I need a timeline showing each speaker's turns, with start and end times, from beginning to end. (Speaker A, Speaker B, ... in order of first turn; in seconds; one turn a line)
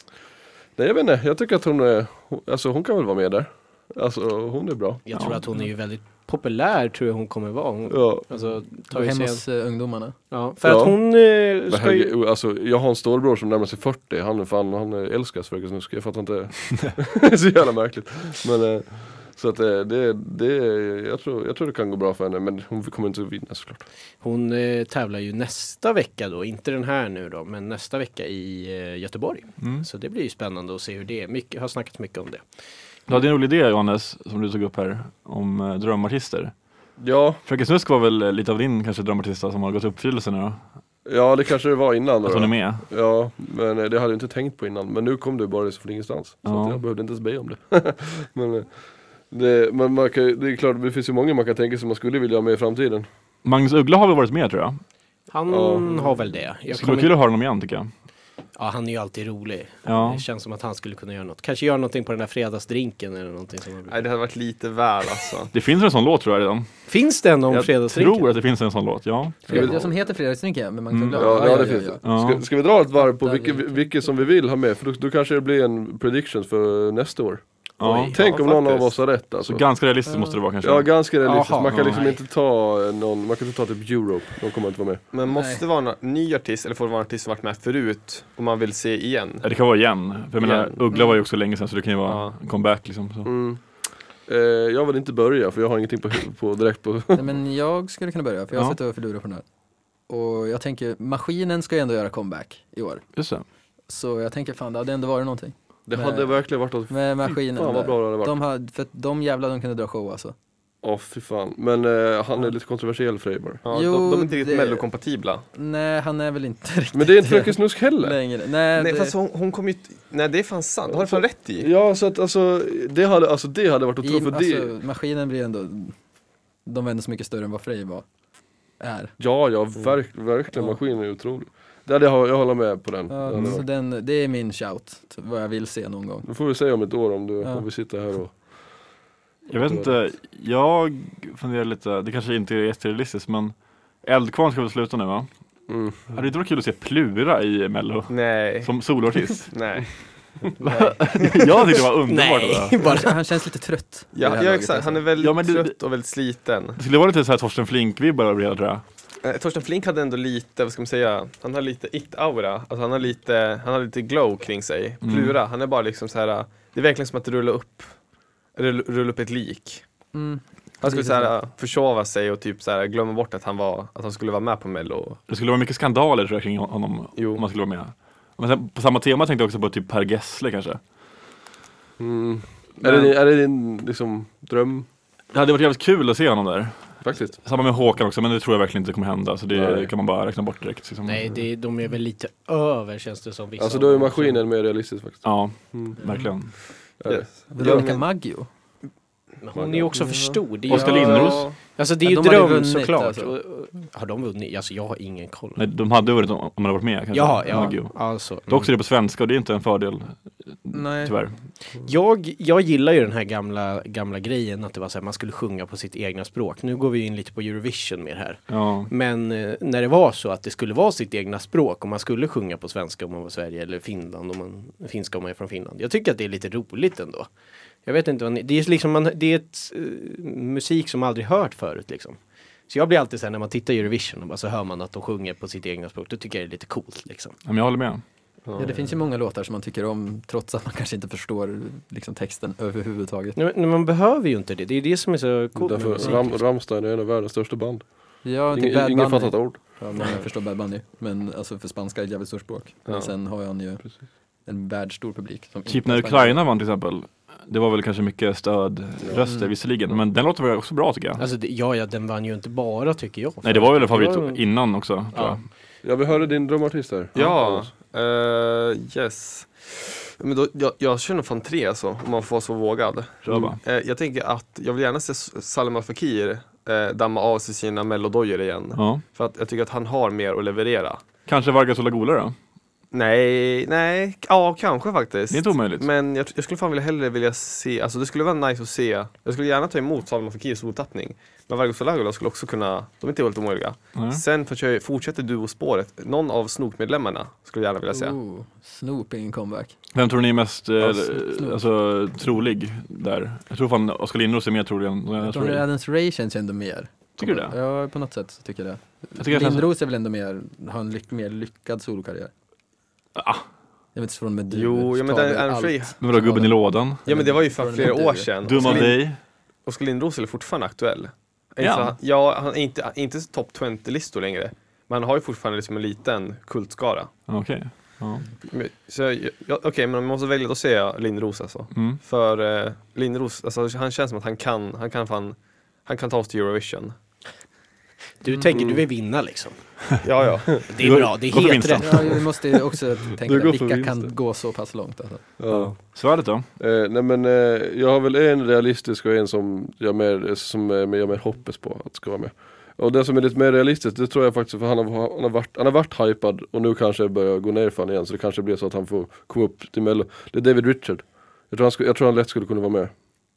Speaker A: 0.8-5.0
Speaker B: 5.0-9.4
Speaker C: 5.1-5.4
Speaker A: 7.9-8.2
Speaker D: 8.9-10.2
Speaker B: 10.3-12.1
Speaker A: 10.6-11.0
Speaker A: 11.7-23.8
Speaker B: 24.2-32.4
Speaker C: 29.6-29.9
Speaker C: 33.1-36.5
Speaker A: 37.0-37.4
Speaker C: 37.5-40.6
Speaker A: 41.0-48.7
Speaker C: 42.2-42.8
Speaker C: 46.4-46.8
Speaker A: 49.3-53.1
Speaker C: 53.4-54.8
Speaker B: 55.3-57.1
Speaker A: 55.5-56.2
Speaker C: 56.7-57.9
Speaker B: 58.5-64.0
Speaker C: 59.9-60.2
Speaker E: 63.9-65.5
Speaker C: 65.5-66.7
Speaker B: 66.9-68.3
Speaker C: 67.5-69.7
Speaker D: 69.5-72.0
Speaker A: 69.5-69.9
Speaker C: 70.9-71.4
Speaker A: 71.1-77.4
Speaker C: 72.0-72.4
Speaker D: 73.0-73.9
Speaker C: 77.8-78.2
Speaker B: 77.8-78.1
Speaker E: 78.1-79.0
Speaker A: 78.1-79.6
Speaker C: 79.4-80.9
Speaker D: 80.0-80.4
Speaker A: 80.6-85.1
Speaker B: 81.2-82.2
Speaker C: 81.6-82.0
Speaker E: 85.1-89.5
Speaker D: 85.3-85.6
Speaker C: 89.4-93.3
Speaker E: 90.4-90.8
Speaker E: 92.0-92.3
Speaker A: 93.2-97.3
Speaker D: 97.1-99.4
Speaker D: 100.1-103.0
Speaker C: 103.2-103.4
Speaker D: 103.9-110.3
Speaker A: 105.9-108.3
Speaker A: 110.8-113.6
Speaker E: 113.6-115.4
Speaker D: 113.7-114.8
Speaker D: 115.5-119.1
Speaker A: 116.9-118.2
Speaker E: 118.8-121.7
Speaker A: 120.9-124.7
Speaker D: 124.0-126.0
Speaker D: 126.7-128.0
Speaker D: 128.8-129.1
Speaker A: 129.2-133.6
Speaker D: 133.1-136.3
Speaker A: 136.2-138.3
Speaker A: 139.5-139.9
Speaker C: 139.5-145.3
Speaker A: 145.7-146.1
Speaker C: 146.1-149.5
Speaker E: 148.1-148.7
Speaker E: 149.5-149.9
Speaker C: 150.6-152.8
Speaker E: 150.6-150.9
Speaker B: 152.1-153.1
Speaker D: 152.8-155.0
Speaker E: 154.1-156.8
Speaker C: 155.2-155.8
Speaker C: 156.8-158.8
Speaker E: 159.2-167.9
Speaker C: 165.0-165.4
Speaker E: 168.6-169.8
Speaker D: 170.1-171.4
Speaker E: 170.8-175.2
Speaker C: 175.3-180.8
Speaker E: 177.2-177.4
Speaker A: 182.0-184.8
Speaker C: 185.3-191.2
Speaker A: 187.0-187.3
Speaker A: 189.5-189.9
Speaker B: 191.1-194.4
Speaker A: 193.6-196.0
Speaker C: 195.2-196.6
Speaker D: 196.0-196.3
Speaker A: 197.0-198.0
Speaker E: 197.1-197.9
Speaker D: 197.5-198.5
Speaker B: 199.4-205.6
Speaker A: 199.5-200.3
Speaker C: 200.7-201.5
Speaker D: 200.7-201.4
Speaker E: 200.8-201.6
Speaker D: 202.0-203.3
Speaker C: 205.6-211.3
Speaker B: 207.1-208.7
Speaker D: 210.7-211.2
Speaker B: 211.8-227.3
Speaker C: 218.5-218.9
Speaker B: 227.8-237.3
Speaker C: 237.4-238.0
Speaker E: 238.4-238.9
Speaker D: 238.6-243.4
Speaker B: 243.3-246.4
Speaker A: 245.6-249.6
Speaker D: 248.2-256.4
Speaker C: 255.7-261.2
Speaker D: 259.2-259.5
Speaker B: 261.2-264.4
Speaker C: 263.4-265.4
Speaker B: 265.1-265.4
Speaker A: 265.8-267.7
Speaker E: 267.1-281.0
Speaker C: 273.2-273.6
Speaker C: 278.7-279.0
Speaker C: 281.2-282.3
Speaker E: 282.9-298.2
Speaker C: 285.3-285.9
Speaker C: 293.9-294.2
Speaker D: 297.9-299.8
Speaker C: 299.9-305.6
Speaker D: 300.8-301.6
Speaker D: 305.2-312.3
Speaker C: 307.2-307.5
Speaker C: 309.2-309.7
Speaker C: 313.1-313.4
Speaker D: 313.9-318.9
Speaker E: 314.5-316.0
Speaker C: 316.0-317.0
Speaker E: 317.0-319.1
Speaker C: 318.4-319.2
Speaker E: 319.6-327.1
Speaker C: 321.6-321.9
Speaker C: 327.3-328.2
Speaker E: 328.5-336.9
Speaker C: 331.7-332.0
Speaker B: 338.2-339.8
Speaker A: 338.5-338.8
Speaker E: 340.0-340.6
Speaker B: 340.7-342.1
Speaker C: 340.8-342.2
Speaker D: 341.8-345.2
Speaker A: 343.2-344.1
Speaker A: 345.4-345.9
Speaker C: 345.5-346.5
Speaker A: 346.6-362.9